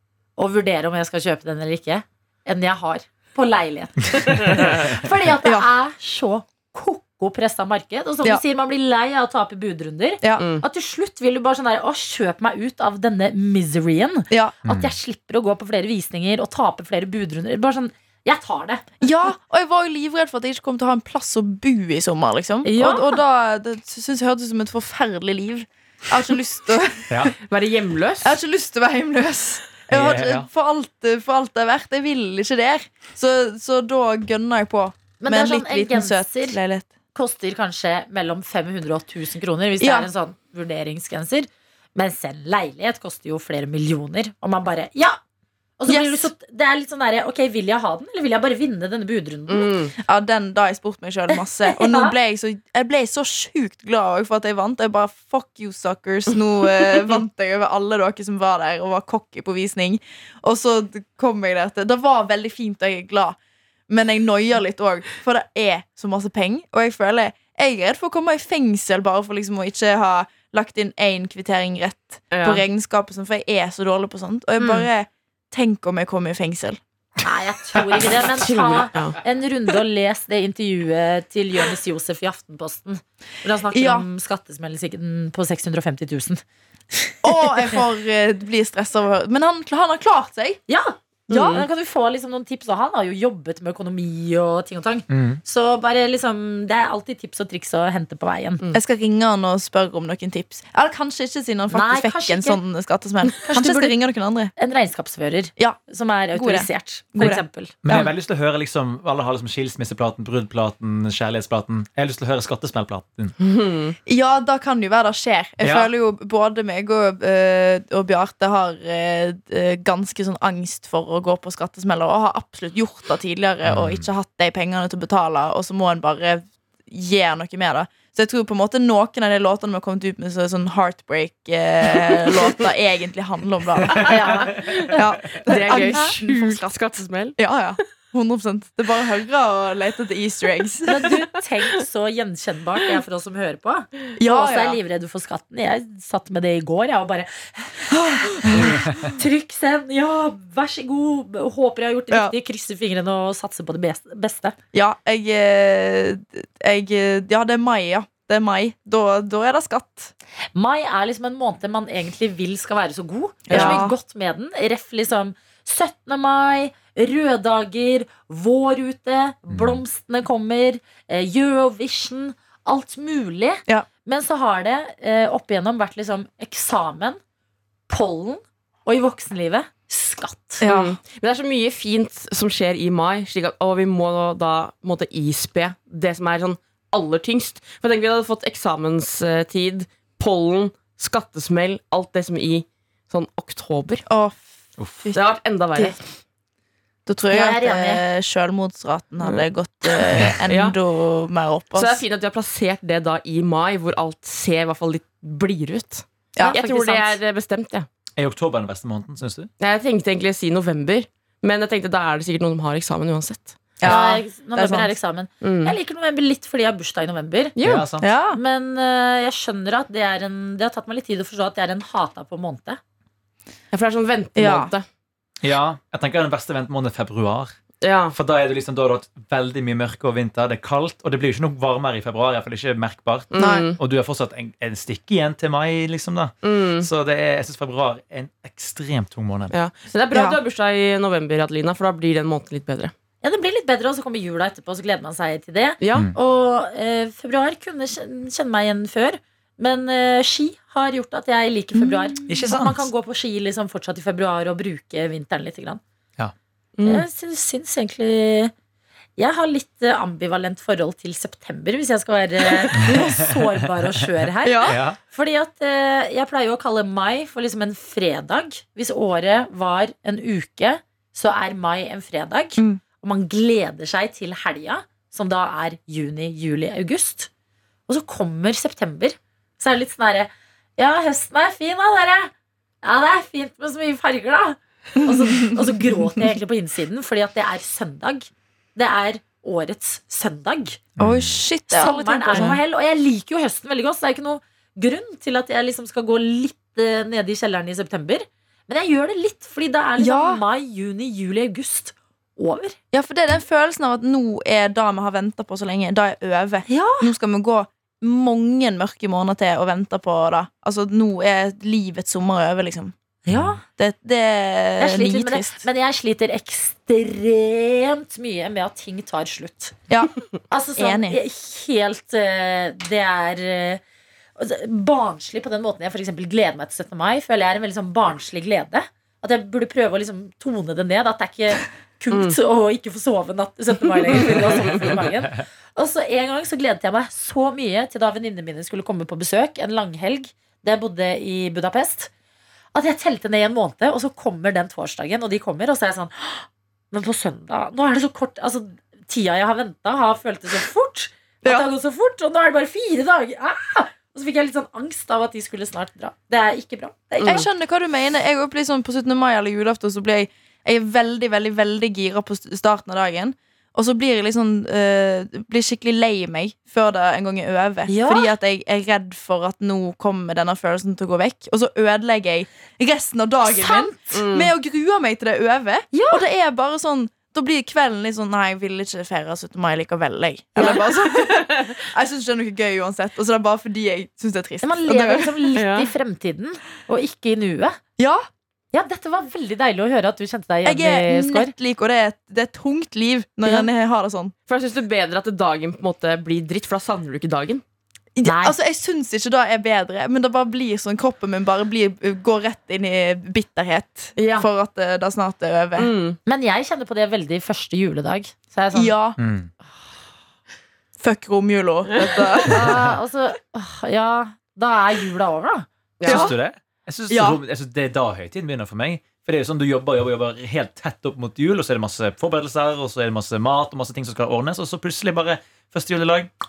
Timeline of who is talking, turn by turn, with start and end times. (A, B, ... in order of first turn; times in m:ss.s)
0:00.4-0:18.8 A
0:10.4-0:10.6 B
0:14.3-0:14.5 C
0:14.6-0:14.9 D
0:19.0-0:27.3 C
0:22.6-0:23.2 A
0:27.1-0:27.4 D
0:27.5-0:28.4 B
0:28.2-0:36.9 C
0:29.9-0:30.5 D
0:35.2-0:36.6 A
0:37.1-0:45.2 A
0:39.8-0:40.1 C
0:45.8-0:49.8 A
0:45.9-0:46.3 C
0:49.5-0:49.9 B
0:50.0-1:03.4 C
0:51.3-0:52.1 A
1:03.9-1:16.8 C
1:12.3-1:12.6 B
1:14.6-1:14.9 A
1:17.2-1:26.4 A
1:18.4-1:19.2 B
1:23.7-1:24.1 C
1:27.2-1:30.6 C
1:30.7-1:38.7 A
1:31.3-1:31.6 C
1:31.3-1:31.7 B
1:35.1-1:35.4 D
1:38.7-1:44.5 C
1:41.7-1:42.6 A
1:43.4-1:44.0 A
1:44.6-1:47.7 A
1:46.3-1:48.1 C
1:47.8-1:53.3 D
1:53.4-1:54.0 B
1:54.0-2:14.3 C
1:55.6-1:55.9 D
2:03.6-2:04.1 D
2:13.9-2:14.2 D
2:14.0-2:14.8 A
2:14.5-2:17.4 B
2:14.9-2:16.7 C
2:17.4-2:21.1 C
2:20.8-2:34.5 A
2:24.2-2:24.8 C
2:27.9-2:28.8 C
2:34.7-2:40.1 C
2:40.5-2:57.2 A
2:43.5-2:43.8 B
2:43.5-2:44.0 C
2:49.5-2:49.8 D
2:57.9-3:00.6 A
3:00.6-3:01.0 C
3:00.6-3:14.0 B
3:14.1-3:15.2 C
3:14.8-3:15.1 D
3:15.1-3:16.0 B
3:17.0-3:22.0 C
3:17.3-3:18.0 A
3:19.2-3:20.8 B
3:21.7-3:27.9 B
3:26.4-3:27.2 A
3:28.2-3:29.5 D
3:29.6-3:34.0 B
3:33.8-3:34.9 C
3:33.8-3:37.6 A
3:35.4-3:35.8 B
3:37.6-3:37.8 B
3:37.6-3:38.1 D
3:38.0-3:38.4 C
3:38.3-3:42.8 A
3:43.7-3:44.8 B
3:44.4-3:44.7 C
3:45.4-3:47.5 D
3:47.8-3:48.1 B
3:48.1-3:59.5 D
3:53.3-3:53.8 B
3:53.4-3:53.6 C
3:56.4-3:56.9 B
3:59.5-4:02.9 B
4:00.1-4:00.4 C
4:03.2-4:15.8 A
4:05.8-4:06.1 B
4:12.2-4:12.9 D
4:16.8-4:17.0 B
4:16.8-4:18.5 A
4:19.2-4:37.3 A
4:22.8-4:23.4 D
4:24.4-4:24.8 C
4:24.6-4:25.0 D
4:37.9-4:42.3 A
4:42.8-4:50.8 A
4:51.0-4:51.3 D
4:51.0-4:52.6 C
4:51.7-5:02.8 A
5:00.0-5:00.4 C
5:02.9-5:12.9 C
5:06.7-5:07.1 A
5:13.2-5:13.6 A
5:13.3-5:13.6 D
5:13.8-5:15.6 C
5:14.8-5:19.8 A
5:20.5-5:23.8 A
5:20.8-5:21.2 C
5:24.4-5:42.1 A
5:32.1-5:32.4 B
5:42.7-5:57.4 A
5:51.4-5:51.7 C
5:57.2-5:57.4 B
5:57.2-6:25.4 C
6:07.8-6:08.3 A
6:13.6-6:13.9 A
6:14.1-6:14.5 B
6:15.9-6:16.2 A
6:20.6-6:21.7 B
6:24.6-6:27.8 A
6:25.5-6:25.9 B
6:28.0-6:28.2 C
6:28.7-6:31.5 A
6:30.6-6:34.3 C
6:33.4-6:33.7 B
6:34.5-6:37.6 B
6:38.2-6:45.9 C
6:38.2-6:38.6 A
6:44.2-6:44.5 B
6:45.8-6:46.2 B
6:46.2-6:49.0 A
6:48.7-6:49.2 C
6:49.2-6:49.5 D
6:51.0-6:52.9 C
6:52.4-6:55.6 A
6:56.0-6:56.3 B
6:56.0-7:06.3 D
6:56.1-6:56.3 C
6:57.1-6:57.4 C